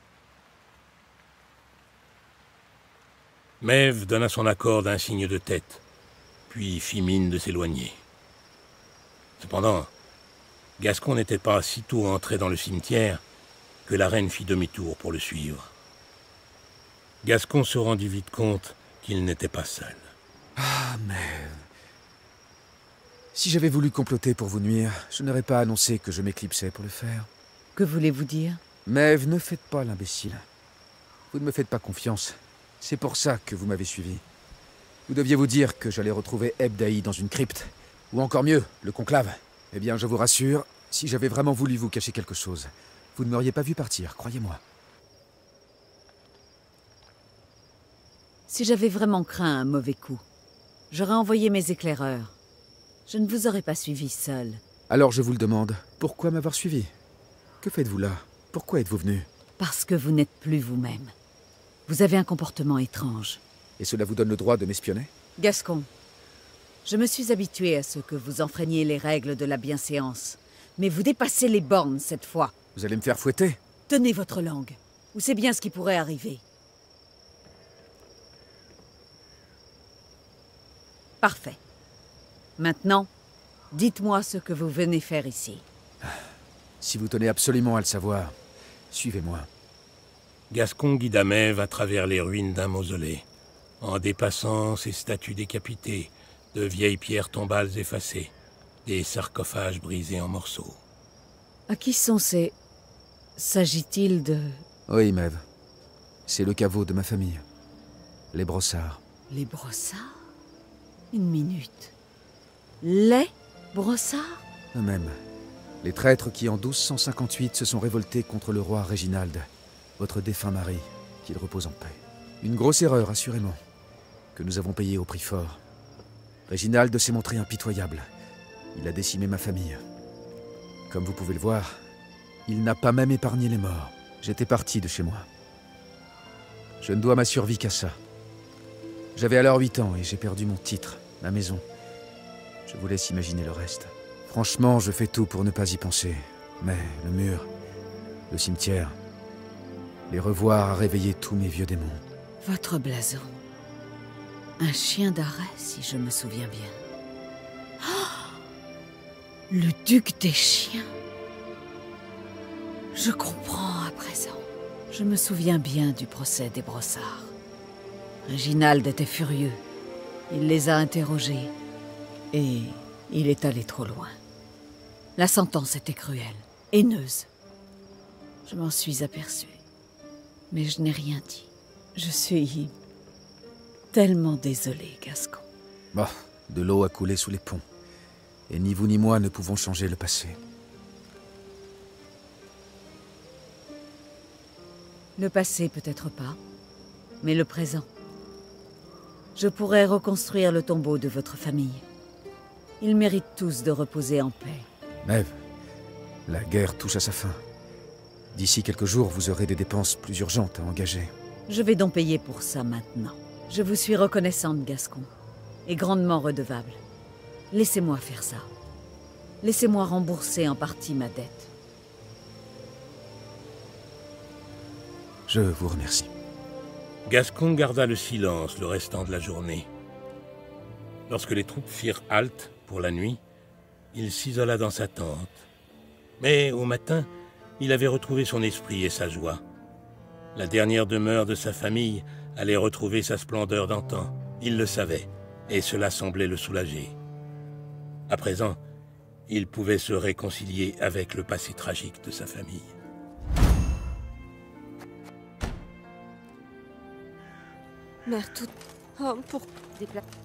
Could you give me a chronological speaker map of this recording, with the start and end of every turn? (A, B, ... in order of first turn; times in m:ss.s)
0:03.6-0:05.8 A
0:06.5-0:08.0 A
0:09.4-0:09.9 A
0:10.8-0:13.2 A
0:13.8-0:15.7 A
0:17.2-0:20.0 A
0:20.6-0:21.6 B
0:23.3-0:27.3 B
0:27.7-0:28.6 C
0:28.8-0:30.4 B
0:31.3-0:34.2 B
0:35.1-0:44.6 B
0:48.5-0:50.2 C
0:50.9-0:52.4 C
0:53.1-0:54.6 C
0:54.9-0:56.9 B
0:57.6-0:59.3 B
0:59.6-1:01.1 C
1:01.9-1:03.4 C
1:03.8-1:05.1 B
1:05.4-1:05.9 C
1:06.8-1:12.5 C
1:12.7-1:13.6 B
1:13.9-1:16.4 C
1:21.2-1:21.6 C
1:22.6-1:23.1 C
1:23.7-1:25.6 C
1:26.8-1:28.4 B
1:28.9-1:29.5 B
1:30.5-1:33.2 A
1:33.8-1:38.3 A
1:38.8-1:40.8 A
1:41.7-1:42.5 C
1:43.4-1:44.6 C
1:44.9-1:45.4 B
1:46.3-1:47.4 B
1:48.3-1:49.0 B
1:49.3-1:50.1 C
1:51.1-1:51.9 C
1:52.8-1:54.4 C
1:54.7-1:55.2 B
1:55.8-2:03.6 B
2:04.3-2:05.6 B
2:06.5-2:08.1 B
2:08.7-2:09.8 B
2:10.9-2:11.7 B
2:12.5-2:15.3 B
2:16.8-2:18.0 B
2:19.1-2:21.6 B
2:22.6-2:27.5 B
2:28.3-2:29.0 B
2:30.1-2:32.0 B
2:32.4-2:33.4 C
2:34.6-2:36.8 C
2:37.8-2:38.4 C
2:39.5-2:40.9 C
2:42.9-2:47.3 C
2:48.2-2:49.6 C
2:50.3-2:51.5 C
2:52.3-2:54.2 C
2:55.2-2:57.3 C
2:58.4-2:59.6 C
3:00.5-3:02.7 C
3:03.9-3:05.4 C
3:05.9-3:07.6 B
3:08.5-3:10.4 B
3:15.2-3:16.4 C
3:17.2-3:17.9 C
3:19.4-3:21.8 C
3:22.8-3:24.7 C
3:25.0-3:25.3 B
3:26.3-3:27.4 B
3:28.3-3:31.1 B
3:31.5-3:35.1 C
3:35.6-3:36.8 C
3:37.5-3:38.5 C
3:39.4-3:41.5 C
3:45.3-3:46.1 B
3:47.0-3:49.7 A
3:51.1-3:53.2 A
3:53.9-3:55.4 A
3:56.2-3:57.1 A
3:57.6-3:59.4 A
4:00.3-4:06.9 A
4:08.1-4:08.6 A
4:09.3-4:12.7 A
4:18.0-4:20.0 D